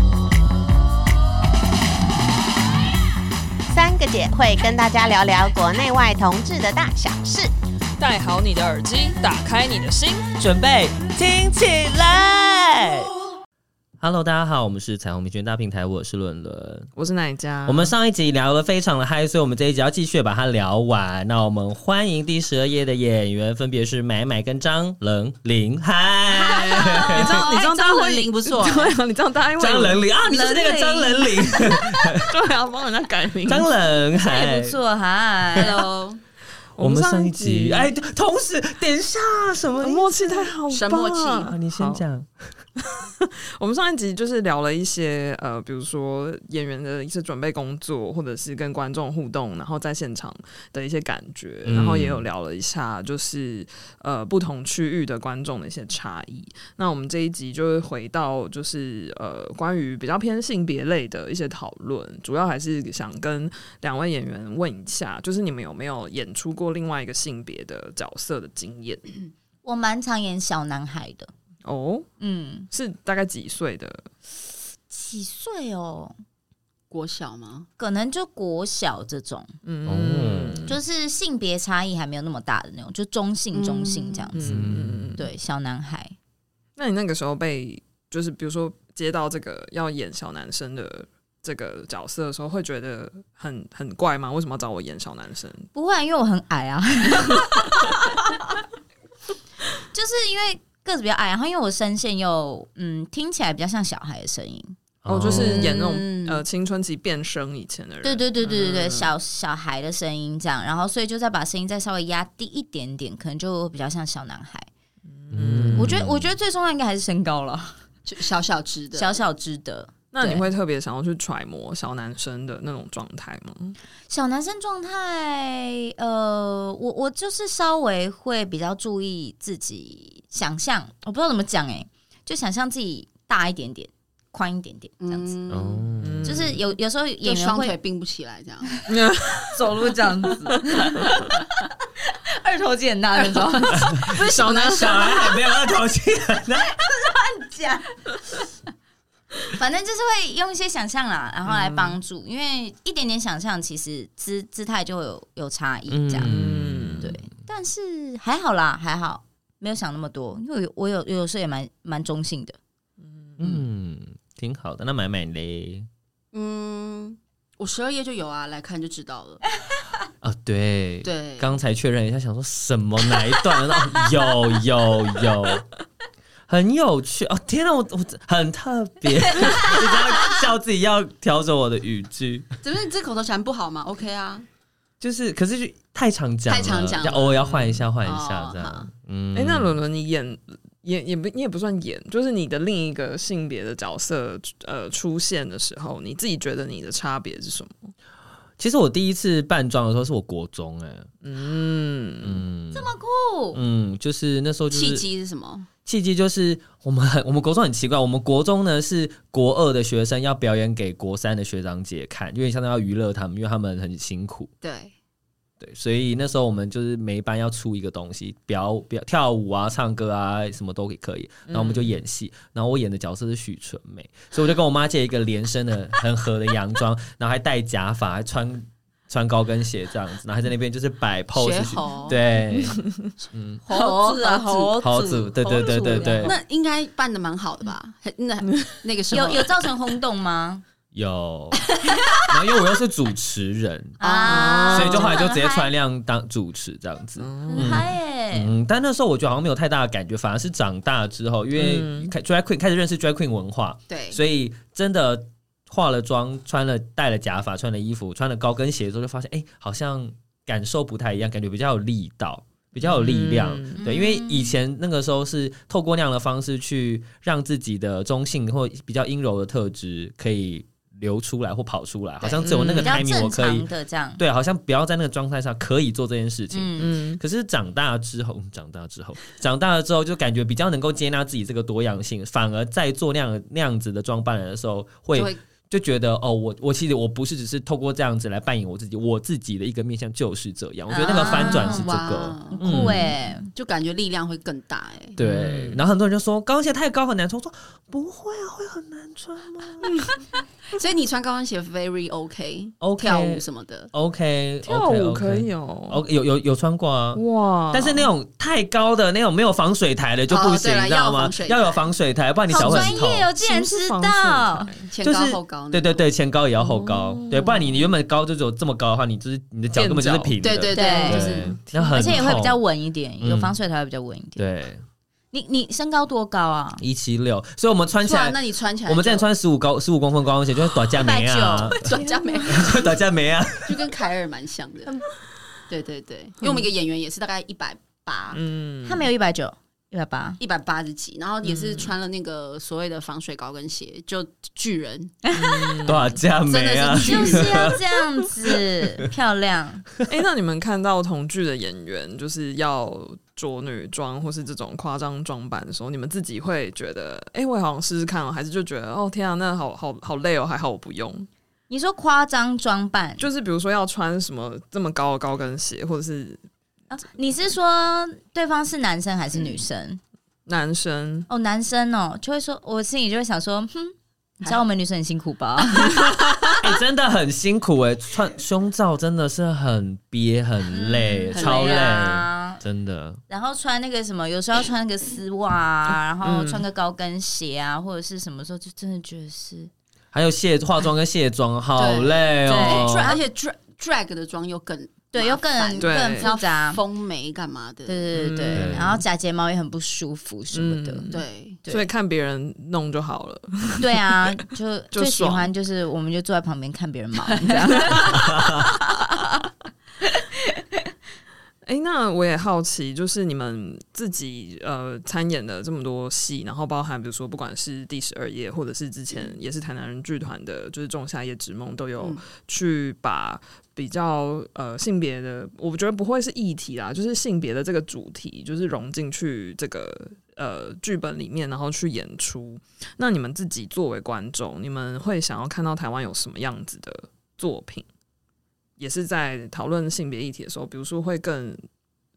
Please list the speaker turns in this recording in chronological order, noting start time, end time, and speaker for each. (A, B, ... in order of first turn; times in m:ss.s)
0:03.7-0:07.5 A
0:08.0-0:10.3 B
0:10.4-0:13.1 C
0:14.0-0:16.9 C
0:17.0-0:17.9 B
0:17.7-0:27.4 C
0:26.4-0:27.0 D
0:27.0-0:30.1 B
0:27.2-0:29.0 E
0:29.6-0:32.3 C
0:30.3-0:31.3 D
0:32.2-0:33.7 B
0:33.5-0:34.8 C
0:34.2-0:35.8 D
0:35.6-0:36.2 E
0:36.7-0:37.9 B
0:36.8-0:40.6 C
0:39.8-0:42.0 B
0:40.7-0:41.5 E
0:41.5-0:42.3 C
0:42.8-1:09.0 B
0:51.6-0:52.3 C
1:09.6-1:11.3 D
1:11.6-1:12.1 B
1:12.2-1:12.7 D
1:12.7-1:14.1 B
1:14.9-1:16.2 D
1:16.9-1:17.7 E
1:17.8-1:19.5 D
1:19.6-1:20.8 B
1:19.9-1:20.7 C
1:20.7-1:24.4 D
1:23.5-1:24.3 E
1:24.3-1:25.3 B
1:24.4-1:25.1 C
1:25.2-1:26.2 D
1:26.8-1:35.7 B
1:35.7-1:38.5 D
1:39.9-1:44.8 D
1:45.0-1:45.6 C
1:45.1-1:49.1 B
1:45.2-1:46.4 E
1:48.0-1:54.7 D
1:55.1-1:55.9 B
1:55.3-1:56.4 C
1:55.8-1:57.8 D
1:58.0-1:59.2 E
1:59.0-2:00.5 D
2:00.1-2:03.8 B
2:04.1-2:15.4 D
2:15.0-2:15.9 E
2:15.5-2:16.5 C
2:16.0-2:16.6 B
2:16.2-2:17.8 D
2:17.2-2:18.7 E
2:18.9-2:20.9 B
2:19.6-2:25.4 D
2:23.2-2:25.2 E
2:24.0-2:25.0 B
2:24.7-2:26.7 C
2:26.6-2:28.0 D
2:29.5-2:36.3 D
2:31.4-2:32.0 B
2:35.9-2:37.2 C
2:36.2-2:37.1 B
2:37.0-2:42.6 D
2:43.2-2:43.6 B
2:43.4-2:45.9 C
2:46.3-2:49.4 E
2:50.2-2:55.6 C
2:51.0-2:51.6 E
2:56.5-3:02.5 C
3:02.6-3:04.5 E
3:05.0-3:09.8 C
3:06.5-3:08.9 E
3:09.3-3:17.9 B
3:18.6-3:21.1 C
3:21.2-3:22.4 B
3:22.2-3:22.9 C
3:22.7-3:23.6 D
3:23.5-3:25.0 C
3:24.7-3:25.7 E
3:25.8-3:34.5 C
3:34.6-3:34.9 E
3:35.6-3:52.8 C
3:41.5-3:41.9 B
3:51.3-3:52.2 E
3:53.3-3:53.6 C
3:53.6-3:54.8 E
3:53.7-3:56.4 D
3:54.8-3:56.4 C
3:55.7-3:59.7 E
3:59.1-4:00.6 D
4:00.9-4:01.6 C
4:02.3-4:04.0 C
4:04.0-4:04.8 E
4:04.0-4:05.7 D
4:04.3-4:05.2 B
4:04.7-4:53.1 C
4:07.2-4:07.8 B
4:07.5-4:08.6 D
4:11.5-4:12.1 B
4:13.9-4:14.2 E
4:22.8-4:23.8 B
4:23.8-4:24.6 D
4:32.4-4:33.0 B
4:32.7-4:34.2 D
4:36.5-4:37.0 D
4:36.8-4:37.2 B
4:45.1-4:45.4 E
4:50.9-4:53.5 D
4:51.1-4:55.2 E
4:55.2-4:59.9 C
4:55.2-4:55.8 B
5:00.7-5:03.9 E
5:02.8-5:13.3 C
5:04.6-5:06.0 B
5:07.1-5:08.1 B
5:10.3-5:11.8 E
5:12.5-5:14.7 D
5:12.5-5:14.9 B
5:14.9-5:16.0 E
5:15.0-5:22.6 C
5:16.6-5:17.9 B
5:19.7-5:20.4 B
5:20.4-5:21.5 E
5:20.7-5:24.4 D
5:21.5-5:22.3 B
5:23.2-5:23.6 C
5:24.4-5:24.8 C
5:25.3-5:26.8 D
5:26.8-5:31.9 C
5:28.0-5:29.3 E
5:31.0-5:32.7 D
5:31.7-5:33.0 E
5:32.5-5:33.8 C
5:33.6-5:35.1 E
5:35.7-5:38.4 E
5:38.3-5:39.1 B
5:38.8-5:40.4 D
5:40.4-5:45.4 E
5:41.4-5:42.0 B
5:45.3-5:46.2 B
5:45.8-5:47.8 C
5:46.5-5:47.7 E
5:47.0-5:49.9 D
5:50.0-6:01.3 B
6:01.7-6:03.3 D
6:03.2-6:06.4 B
6:06.9-6:10.0 D
6:10.5-6:11.3 B
6:11.3-6:16.0 D
6:16.6-6:23.2 C
6:20.7-6:22.6 D
6:21.3-6:21.9 E
6:23.3-6:29.7 D
6:26.2-6:26.6 B
6:30.1-6:33.2 C
6:31.8-6:38.2 E
6:32.4-6:33.2 D
6:35.1-6:36.8 D
6:35.8-6:36.3 B
6:37.9-6:41.1 D
6:38.1-6:38.9 B
6:38.6-6:39.0 C
6:40.5-6:44.1 B
6:41.1-6:41.6 E
6:41.6-6:41.9 D
6:43.8-6:48.9 D
6:44.9-6:45.5 B
6:50.0-6:50.5 D
6:51.6-7:17.9 B
7:18.8-7:21.6 B